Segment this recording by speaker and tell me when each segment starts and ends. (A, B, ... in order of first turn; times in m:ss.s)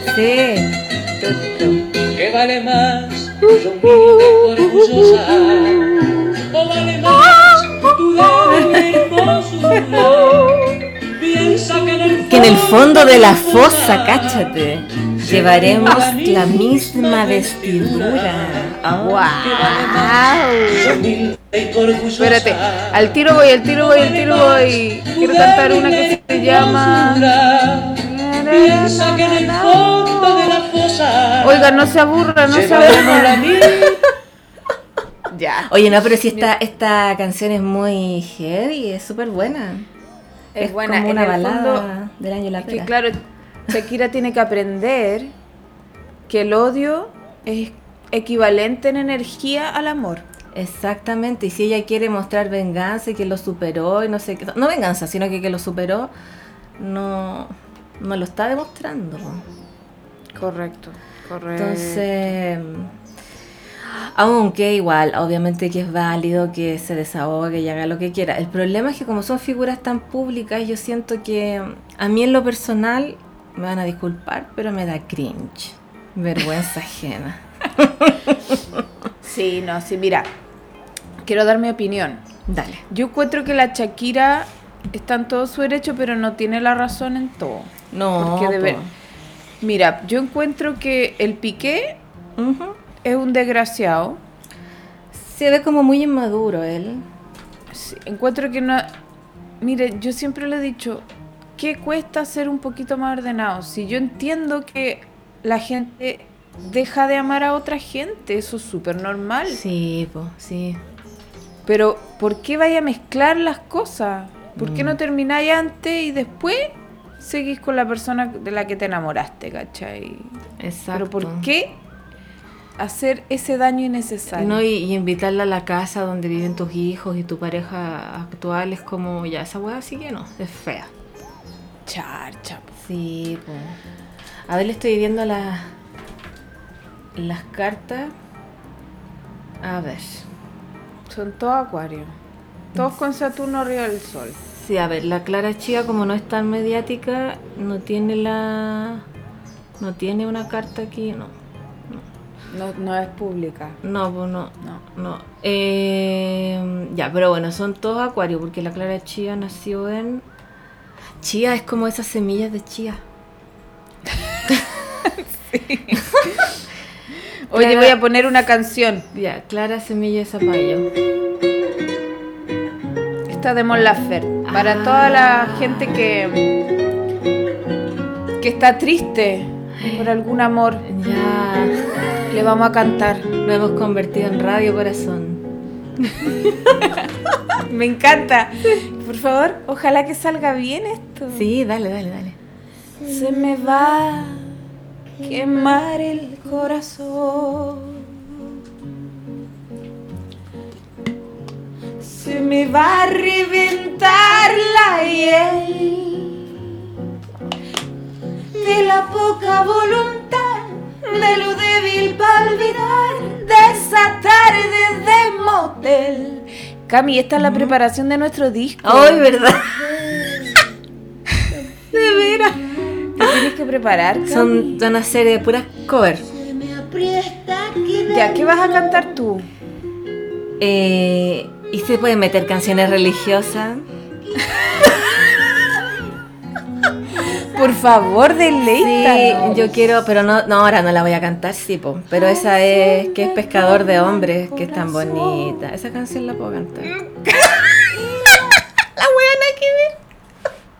0:00.1-0:01.9 A
0:02.1-0:18.7 B
0:04.0-0:04.7 A
0:12.2-0:19.3 A
0:19.0-0:21.0 C
0:19.4-0:23.1 B
0:22.2-0:27.3 C
0:23.7-0:31.9 B
0:28.0-0:30.6 C
0:31.4-0:33.9 C
0:32.4-0:34.1 B
0:35.3-0:36.5 C
0:35.7-0:39.9 A
0:40.5-0:41.9 C
0:40.6-0:42.9 A
0:42.6-0:45.3 C
0:46.3-0:50.2 C
0:50.5-0:56.1 A
0:56.8-0:59.4 A
1:00.4-1:02.1 C
1:01.5-1:02.9 A
1:03.8-1:18.8 A
1:19.2-1:20.3 C
1:21.2-1:22.2 C
1:22.5-1:22.8 A
1:22.9-1:28.8 C
1:27.9-1:28.9 A
1:29.6-1:32.0 C
1:32.4-1:32.8 A
1:33.0-1:34.2 C
1:35.1-1:37.0 A
1:37.7-1:38.9 C
1:39.6-1:41.0 C
1:41.6-1:49.6 C
1:49.5-1:50.8 A
1:51.6-2:00.4 C
1:54.6-1:55.0 A
2:00.6-2:01.5 A
2:00.9-2:01.8 C
2:02.8-2:04.6 C
2:04.3-2:10.9 A
2:11.8-2:12.7 C
2:12.8-2:13.8 A
2:14.5-2:15.7 A
2:17.2-2:18.1 A
2:19.6-2:20.2 A
2:21.1-2:22.1 C
2:22.8-2:24.4 C
2:24.5-2:29.0 A
2:29.8-2:31.3 A
2:32.5-2:33.8 C
2:33.8-2:40.2 A
2:41.2-2:43.0 A
2:44.2-2:44.5 C
2:45.0-2:46.5 C
2:47.5-2:49.1 C
2:47.5-2:48.0 A
2:49.1-2:50.9 A
2:53.3-2:56.6 C
2:54.4-2:56.0 A
2:58.4-3:00.8 C
3:00.8-3:01.9 A
3:02.3-3:03.3 C
3:03.4-3:05.4 A
3:06.0-3:06.7 A
3:07.6-3:11.5 C
3:11.3-3:12.4 A
3:13.0-3:14.5 C
3:15.2-3:18.5 C
3:22.0-3:26.8 C
3:28.5-3:39.3 C
3:37.4-3:37.8 A
3:38.8-3:40.5 A
3:41.3-3:42.4 C
3:41.9-3:43.3 A
3:43.1-3:44.8 C
3:44.2-3:46.4 A
3:48.0-3:49.5 C
3:50.6-3:53.8 A
3:54.4-3:55.0 C
3:54.6-3:55.3 A
3:57.1-3:59.9 C
3:58.8-4:06.9 A
4:02.1-4:05.6 C
4:06.8-4:08.5 C
4:09.0-4:09.9 A